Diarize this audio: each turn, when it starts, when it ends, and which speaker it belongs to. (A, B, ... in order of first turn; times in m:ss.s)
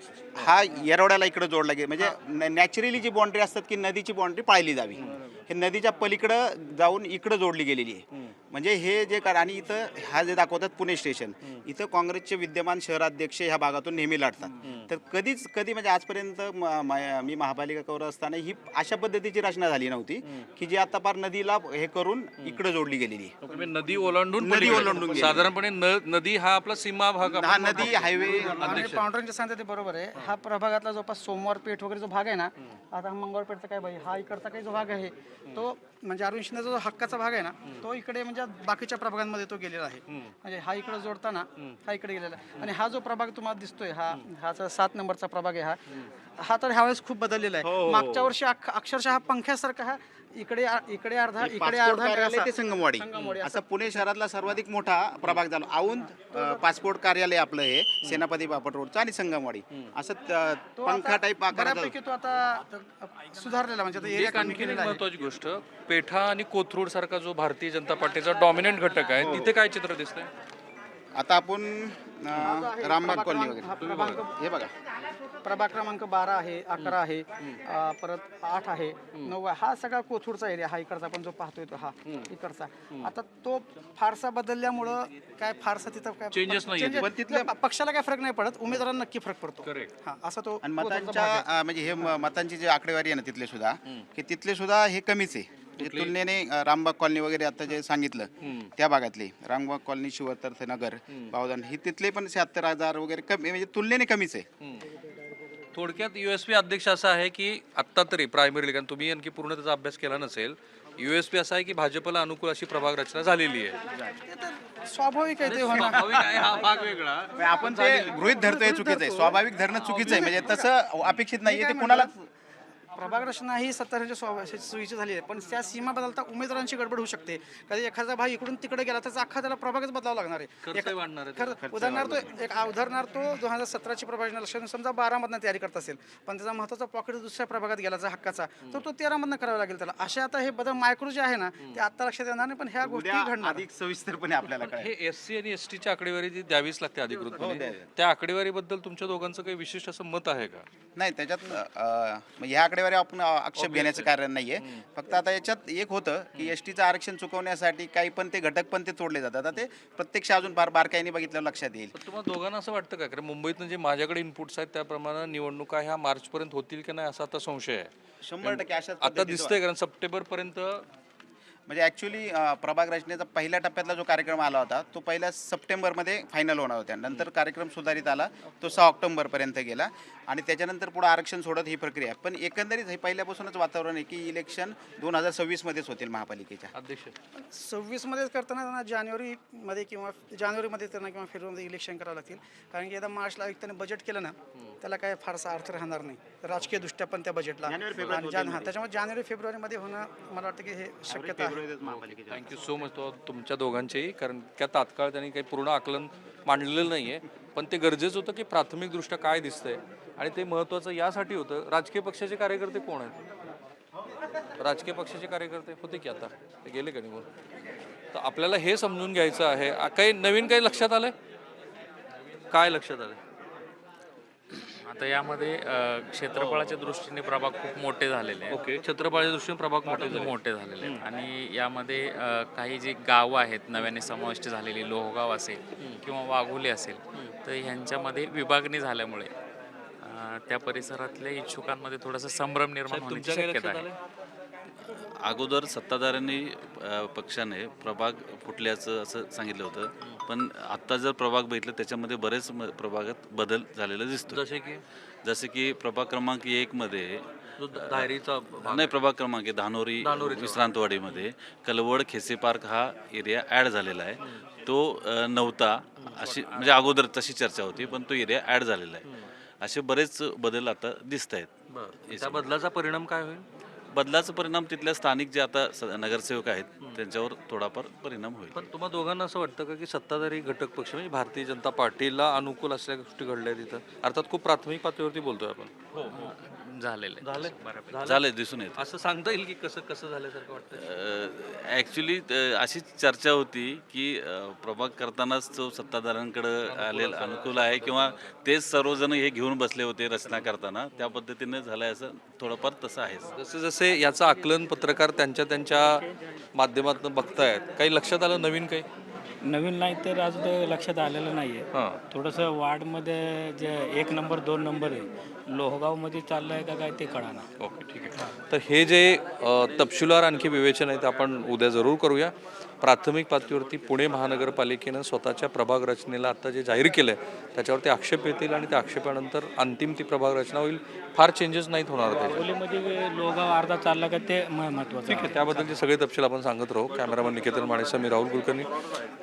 0:00.4-0:23.4 A
0:14.6-0:14.9 B
0:23.4-0:29.1 B
0:24.4-0:25.5 A
0:27.2-0:28.9 A
0:28.0-0:54.0 C
0:47.6-0:48.4 A
0:51.4-1:01.9 A
0:56.3-0:56.6 C
1:00.8-1:05.0 C
1:04.0-1:10.3 B
1:09.2-1:09.6 A
1:11.2-1:14.7 A
1:12.4-1:14.4 C
1:13.8-1:14.2 B
1:15.4-1:31.5 C
1:26.3-1:27.1 B
1:27.0-1:27.5 A
1:29.6-1:29.9 B
1:30.6-1:44.5 A
1:35.8-1:36.2 B
1:38.4-1:38.7 B
1:44.6-1:44.9 B
1:45.7-1:53.8 B
1:54.3-1:56.6 C
1:55.4-1:58.1 B
1:57.4-2:02.2 A
1:57.4-2:00.7 C
2:00.1-2:00.3 B
2:01.4-2:02.2 C
2:03.0-2:23.6 C
2:10.6-2:12.0 B
2:11.6-2:12.3 A
2:22.8-2:24.9 A
2:24.6-2:30.7 B
2:27.4-2:27.9 A
2:31.0-2:41.9 A
2:33.6-2:34.8 B
2:41.9-2:50.9 B
2:48.2-2:49.6 A
2:51.7-3:06.7 A
3:06.7-3:07.2 B
3:07.4-3:21.6 C
3:17.6-3:18.7 A
3:21.1-3:22.7 A
3:21.9-3:33.2 B
3:34.6-3:37.3 B
3:38.1-3:41.2 B
3:42.5-3:43.2 B
3:44.8-3:48.7 D
3:46.3-3:46.8 B
3:48.5-3:51.0 B
3:49.9-3:59.3 D
4:00.0-4:03.9 D
4:02.9-4:04.0 B
4:04.9-4:14.5 E
4:14.3-4:14.8 B
4:15.2-4:17.3 E
4:17.6-4:19.0 B
4:17.8-4:18.1 E
4:18.6-4:31.5 E
4:20.0-4:21.2 B
4:26.0-4:26.3 B
4:31.7-4:33.4 B
4:32.0-4:32.5 E
4:33.9-4:38.6 E
4:38.5-4:46.3 B
4:46.1-4:48.0 D
4:47.2-4:50.8 B
4:48.0-4:48.8 E
4:50.8-5:03.3 E
4:56.7-4:58.3 B
5:03.3-5:08.9 B
5:09.4-5:17.5 F
5:11.7-5:12.0 B
5:17.6-5:32.5 B
5:32.1-5:35.7 F
5:35.1-5:38.8 B